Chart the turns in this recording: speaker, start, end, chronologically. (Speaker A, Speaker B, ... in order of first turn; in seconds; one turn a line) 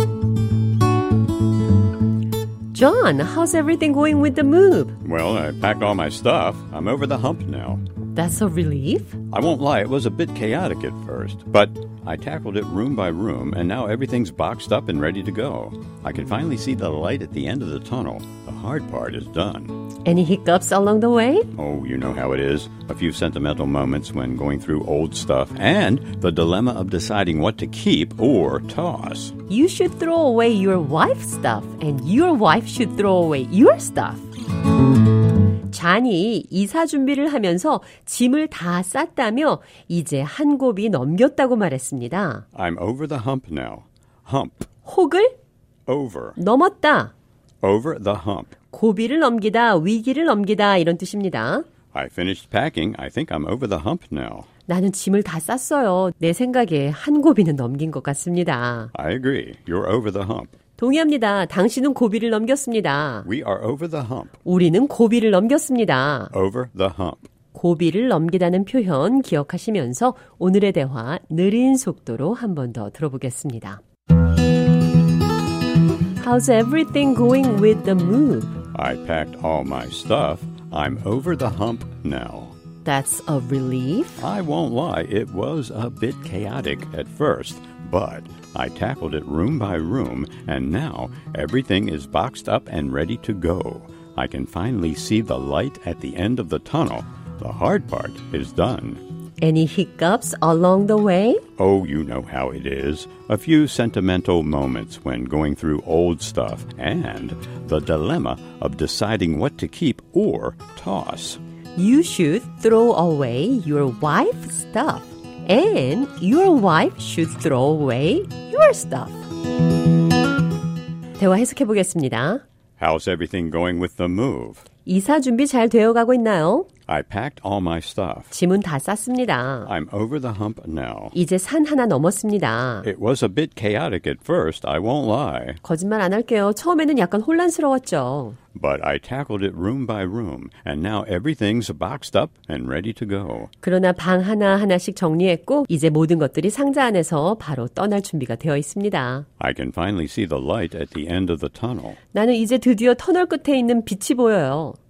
Speaker A: 2.7-4.9
Speaker B: 5.0-7.8
Speaker A: 8.1-9.2
Speaker B: 9.3-19.8
Speaker A: 20.0-21.5
Speaker B: 21.5-29.3
Speaker A: 29.5-34.3
Speaker A: 35.7-42.4
Speaker B: 42.5-44.7
Speaker A: 44.8-45.3
Speaker B: 45.9-46.4
Speaker A: 46.4-47.1
Speaker B: 47.6-48.5
Speaker A: 48.7-51.6
Speaker B: 51.9-54.5
Speaker A: 54.7-58.9
Speaker B: 58.9-60.5
Speaker A: 60.8-63.3
Speaker B: 63.2-64.3
Speaker A: 64.4-66.3
Speaker B: 66.3-67.2
Speaker A: 67.5-73.8
Speaker A: 76.2-78.6
Speaker B: 78.7-82.5
Speaker A: 82.8-84.2
Speaker B: 84.2-99.0
Speaker A: 99.4-101.4
Speaker B: 101.6-111.4
Speaker A: 111.8-119.2
Speaker A: 121.2-122.4
Speaker B: 122.8-124.6
Speaker A: 124.8-126.7
Speaker B: 126.9-128.3
Speaker A: 128.3-129.7
Speaker B: 129.6-131.2
Speaker A: 131.1-132.8
Speaker B: 132.8-135.6
Speaker A: 135.6-138.4
Speaker B: 138.5-143.5
Speaker A: 143.6-149.3
Speaker B: 149.4-152.0
Speaker A: 152.1-154.8